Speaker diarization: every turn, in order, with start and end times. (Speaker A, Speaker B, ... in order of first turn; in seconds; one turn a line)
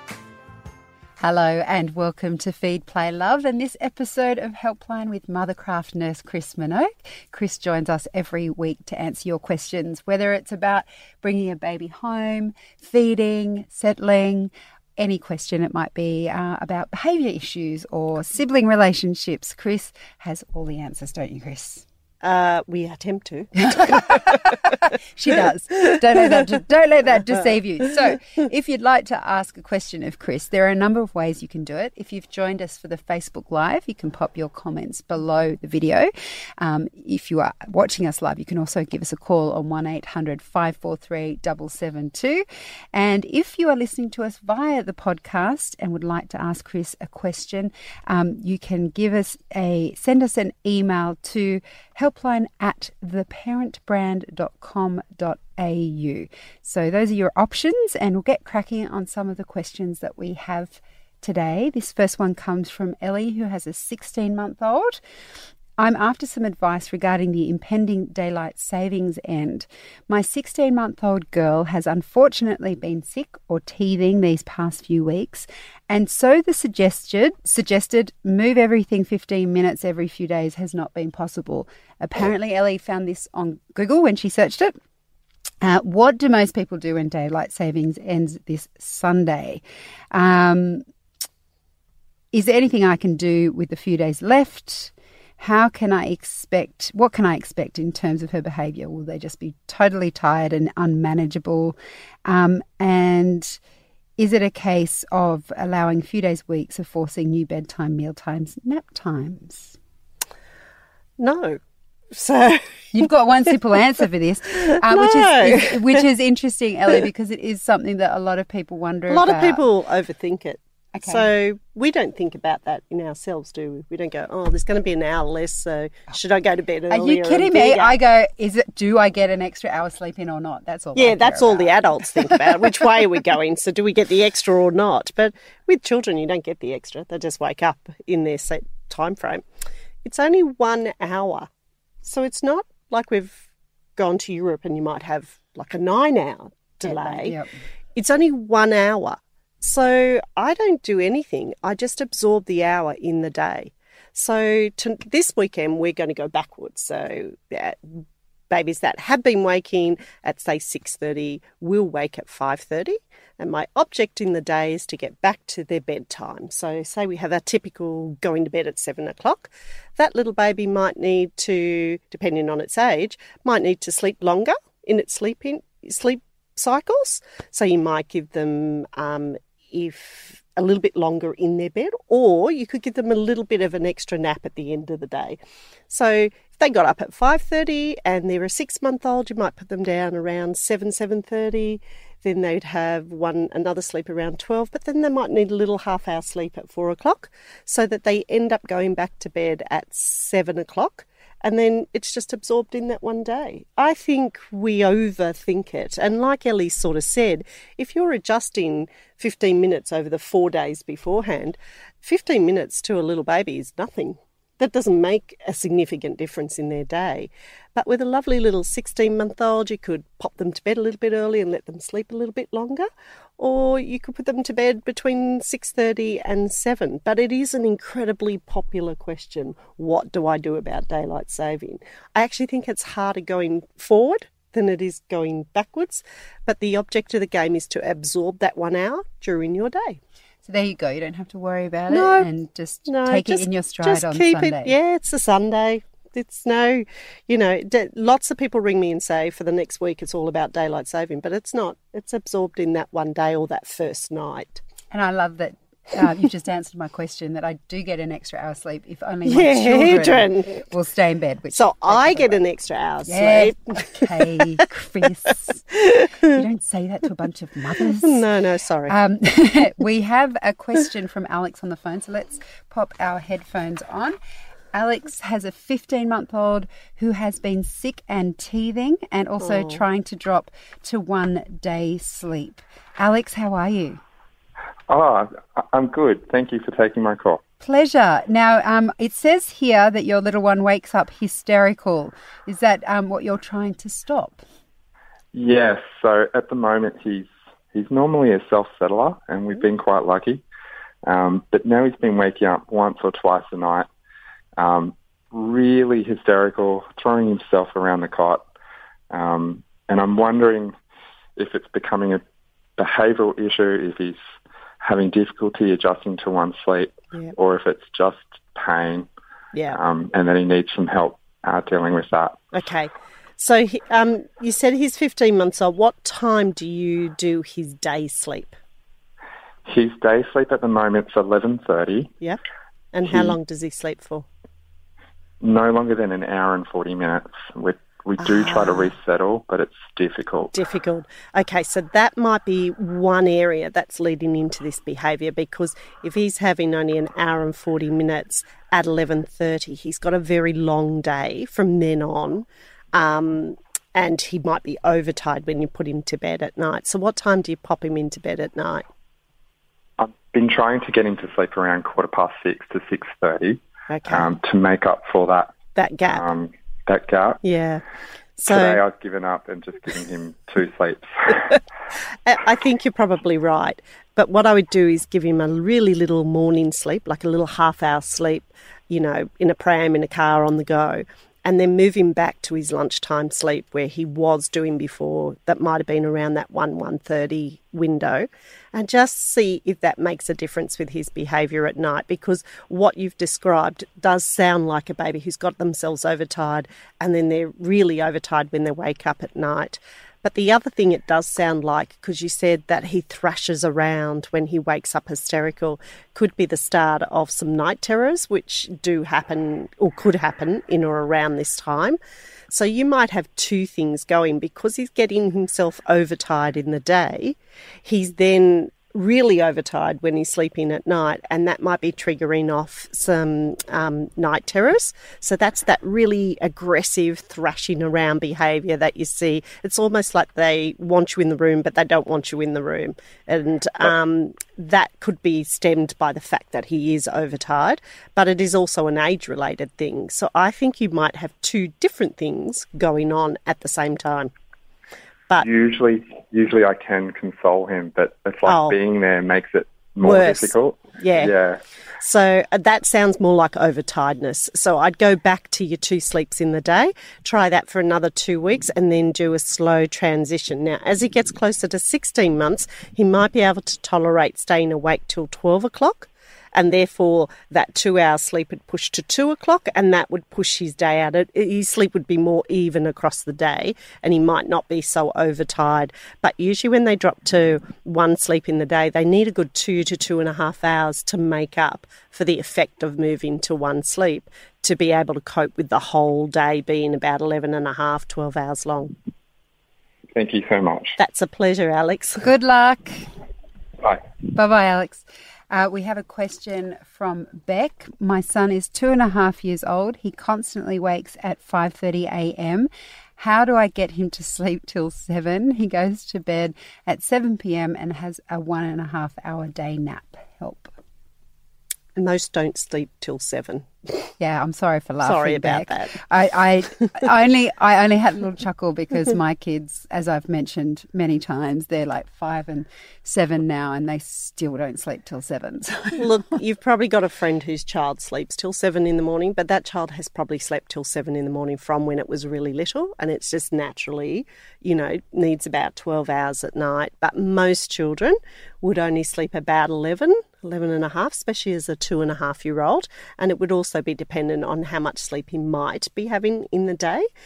Speaker A: 1.2-21.9
Speaker B: 22.2-24.5
Speaker A: 23.7-65.0
Speaker A: 65.8-84.8
Speaker A: 85.6-89.6
Speaker A: 90.1-90.8
Speaker A: 92.3-103.6
Speaker A: 104.2-109.8
Speaker B: 111.2-111.6
Speaker B: 112.1-113.0
Speaker A: 112.9-119.7
Speaker B: 114.7-116.0
Speaker B: 119.1-128.0
Speaker A: 121.0-121.3
Speaker A: 126.9-131.7
Speaker B: 130.9-139.4
Speaker B: 140.0-141.5
Speaker B: 142.0-147.4
Speaker A: 146.8-147.5
Speaker B: 147.9-222.9
Speaker B: 223.4-240.0
Speaker A: 240.4-244.8
Speaker B: 241.9-242.3
Speaker B: 242.9-254.6
Speaker A: 254.9-262.4
Speaker B: 259.3-260.6
Speaker B: 261.5-264.1
Speaker A: 263.1-265.8
Speaker B: 265.9-266.3
Speaker A: 266.3-268.2
Speaker B: 267.8-269.0
Speaker A: 268.9-274.2
Speaker A: 274.7-284.0
Speaker B: 279.4-279.8
Speaker C: 284.9-287.4
Speaker A: 287.6-294.4
Speaker C: 295.3-300.4
Speaker C: 301.1-303.9
Speaker C: 304.6-308.4
Speaker C: 309.1-310.7
Speaker C: 311.4-312.2
Speaker C: 312.8-314.2
Speaker C: 314.8-319.1
Speaker C: 319.7-322.4
Speaker B: 322.5-328.6
Speaker C: 329.7-332.1
Speaker B: 332.9-334.3
Speaker C: 333.1-333.4
Speaker C: 335.4-340.5
Speaker B: 338.2-338.9
Speaker B: 340.5-358.9
Speaker C: 360.0-365.5
Speaker B: 363.9-364.3
Speaker B: 365.8-366.2
Speaker C: 366.1-367.4
Speaker B: 367.4-367.8
Speaker B: 368.4-368.8
Speaker C: 368.5-371.6
Speaker B: 372.3-412.0
Speaker B: 412.5-444.3
Speaker C: 445.4-451.6
Speaker B: 448.5-448.8
Speaker B: 450.0-451.3
Speaker B: 452.0-488.9
Speaker C: 490.1-491.0
Speaker B: 491.0-492.3
Speaker A: 492.2-493.1
Speaker A: 494.3-510.7
Speaker B: 512.0-514.0
Speaker A: 514.2-526.1
Speaker B: 515.0-516.0
Speaker B: 526.0-547.1